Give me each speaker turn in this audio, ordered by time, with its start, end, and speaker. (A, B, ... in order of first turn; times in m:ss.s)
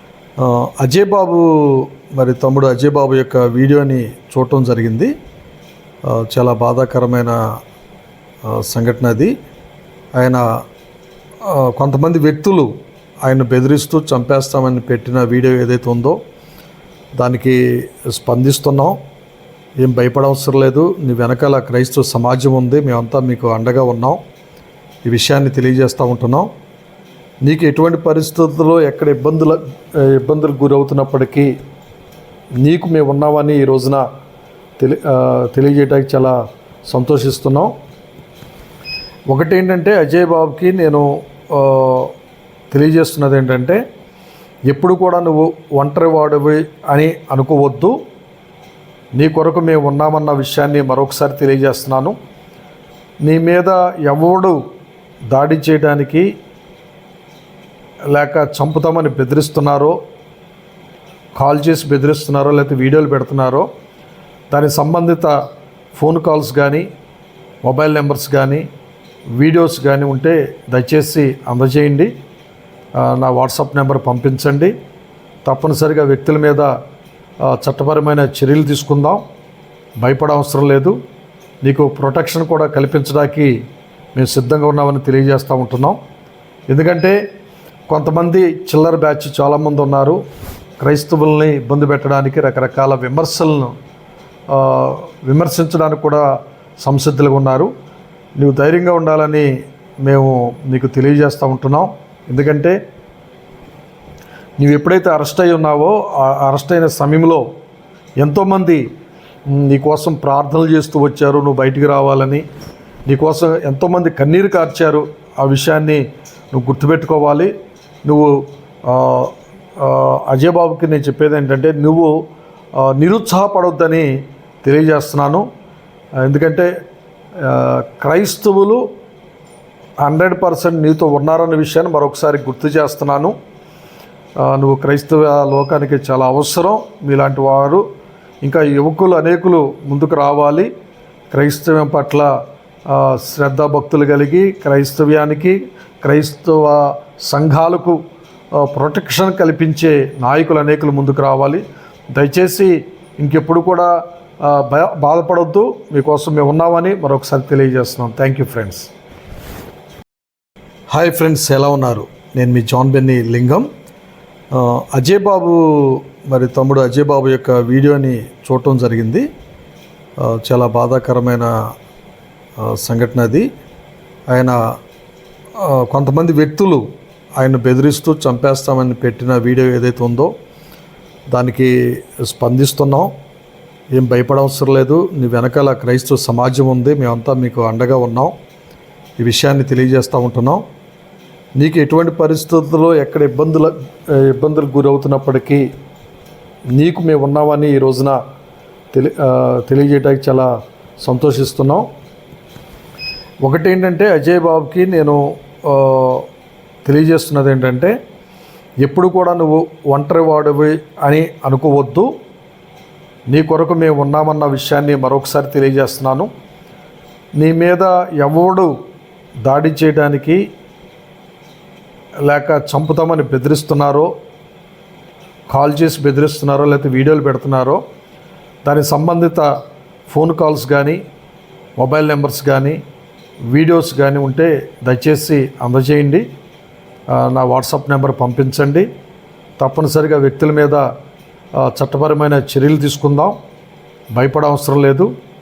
0:00.4-0:05.1 A
0:06.1-0:07.4 A
0:08.5-0:09.3 A
0:10.2-0:10.4 A
0:11.4-0:12.7 A
0:13.2-0:16.2 A
0:17.2-0:19.0 A
0:19.8-0:24.2 A
0:25.1-0:26.5 A
0:27.4-0:31.5 A
0:32.6-0:34.0 A
0:34.8-0:37.7 A
0:39.3-0:42.1 A
0:42.7-0:43.8 A
0:44.7-0:48.0 A
0:49.2-0:52.2 A
0:53.2-0:54.6 A
0:55.3-0:56.3 A
0:58.1-1:00.0 A
1:01.4-1:03.7 A
1:04.5-1:05.3 A
1:06.0-1:06.9 A
1:07.6-1:08.6 A
1:09.4-1:12.1 A
1:13.0-1:14.7 A
1:15.4-1:16.7 A
1:17.4-1:19.2 A
1:20.0-1:21.0 A
1:21.6-1:23.5 A
1:24.2-1:26.0 A
1:26.7-1:27.2 A
1:27.9-1:30.2 A
1:30.8-1:33.8 A
1:34.5-1:36.2 A
1:36.8-1:37.7 A
1:38.4-1:39.5 A
1:40.0-1:42.8 A
1:44.6-1:47.4 A
1:48.2-1:48.8 A
1:49.5-1:52.4 A
1:53.1-1:57.5 A
1:58.0-2:02.2 A
2:02.8-2:04.1 A
2:04.6-2:05.4 A
2:06.2-2:06.7 A
2:07.4-2:08.8 A
2:10.0-2:13.3 A
2:14.4-2:17.8 A
2:18.4-2:20.7 A
2:21.3-2:22.3 A
2:22.9-2:28.0 A
2:28.6-2:31.6 A
2:32.1-2:38.9 A
2:40.9-2:43.7 A
2:44.5-2:49.3 A
2:50.2-2:51.5 A
2:52.6-2:53.5 A
2:54.3-2:54.6 A
2:55.6-2:56.8 A
2:57.4-3:00.3 A
3:01.3-3:03.1 A
3:04.0-3:08.3 A
3:09.2-3:10.6 A
3:11.6-3:15.6 A
3:16.7-3:18.2 A
3:18.9-3:20.5 A
3:21.0-3:21.8 A
3:23.4-3:26.3 A
3:26.8-3:27.9 A
3:28.8-3:32.1 A
3:33.3-3:36.3 A
3:37.4-3:38.7 A
3:39.4-3:40.4 A
3:42.3-3:44.1 A
3:45.5-3:47.8 A
3:48.6-3:49.5 A
3:50.1-3:51.0 A
3:51.8-3:52.8 A
3:53.5-3:56.2 A
3:57.1-3:58.9 A
3:59.6-4:00.8 A
4:01.6-4:03.4 A
4:04.1-4:05.1 A